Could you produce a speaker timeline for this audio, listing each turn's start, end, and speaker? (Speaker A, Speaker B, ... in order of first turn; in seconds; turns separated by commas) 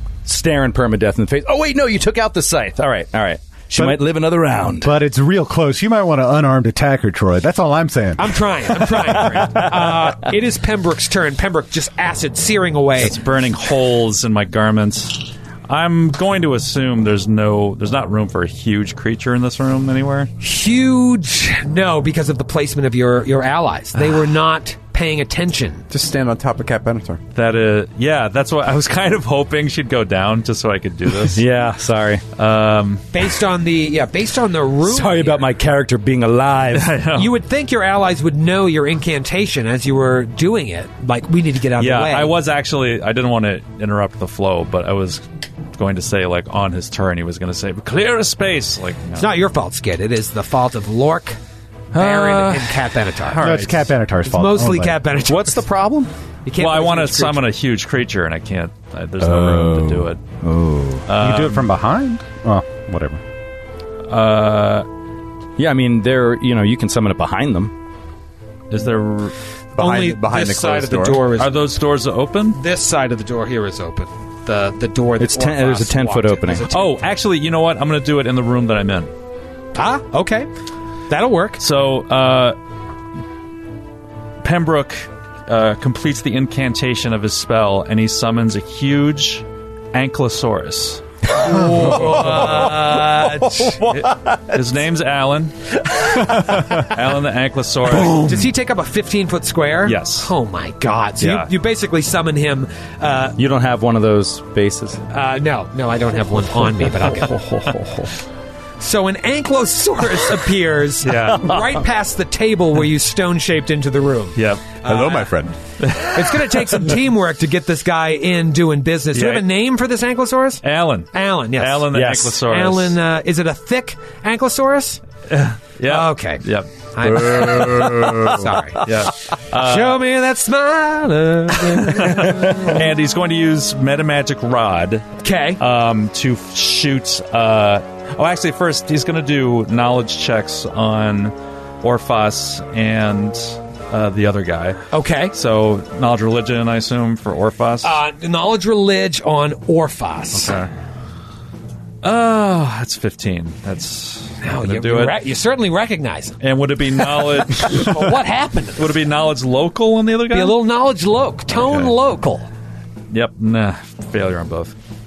Speaker A: 0.2-4.9, Speaker B: 4.8-8.3, Speaker C: 8.2-13.2, Speaker A: 9.0-10.1, Speaker D: 13.0-20.3, Speaker C: 20.4-25.8, Speaker E: 25.9-27.2, Speaker D: 27.3-31.4, Speaker A: 31.3-32.2, Speaker D: 32.4-33.1, Speaker C: 33.1-35.5, Speaker A: 34.8-36.9, Speaker D: 36.7-37.3, Speaker C: 37.1-42.3, Speaker D: 41.8-45.2, Speaker D: 45.8-49.3, Speaker C: 49.2-51.4, Speaker A: 51.9-52.8, Speaker C: 51.9-53.4, Speaker A: 53.4-53.7, Speaker B: 53.4-55.0, Speaker C: 54.2-55.6, Speaker A: 55.2-56.1, Speaker C: 56.4-57.4, Speaker D: 56.6-60.2, Speaker A: 59.2-61.0, Speaker D: 61.1-61.7, Speaker B: 61.1-63.2, Speaker D: 64.1-64.9, Speaker A: 65.6-67.7, Speaker D: 68.7-69.3, Speaker C: 69.7-71.7, Speaker E: 69.8-71.3, Speaker D: 71.3-72.6, Speaker C: 72.5-77.0, Speaker A: 75.2-76.7, Speaker D: 76.7-79.1, Speaker C: 79.7-80.5, Speaker C: 81.1-81.6, Speaker D: 81.6-82.5, Speaker D: 84.4-91.0, Speaker C: 91.3-93.8, Speaker A: 91.5-94.6, Speaker D: 91.8-92.7, Speaker D: 93.9-95.5, Speaker D: 96.2-98.3, Speaker A: 98.0-98.3, Speaker C: 98.0-103.4, Speaker D: 99.8-100.3, Speaker D: 101.2-101.5, Speaker A: 103.4-105.0, Speaker C: 105.1-107.4, Speaker C: 108.8-115.3, Speaker D: 111.0-111.5, Speaker D: 114.3-114.7, Speaker E: 114.8-115.5, Speaker D: 115.8-116.9, Speaker C: 116.0-120.6, Speaker D: 119.1-119.4, Speaker D: 120.6-123.0, Speaker C: 121.1-125.0, Speaker A: 121.9-122.3, Speaker D: 125.3-130.0, Speaker C: 125.8-128.9, Speaker E: 127.2-128.5, Speaker C: 129.5-132.8, Speaker D: 131.8-147.9, Speaker C: 135.2-135.6, Speaker C: 144.9-145.3, Speaker C: 147.8-150.6, Speaker D: 150.3-150.7, Speaker D: 152.0-155.2, Speaker C: 154.4-156.4, Speaker D: 156.4-158.1, Speaker C: 157.5-158.9, Speaker D: 158.8-160.6, Speaker C: 160.3-162.5, Speaker D: 161.6-161.9, Speaker D: 163.1-164.7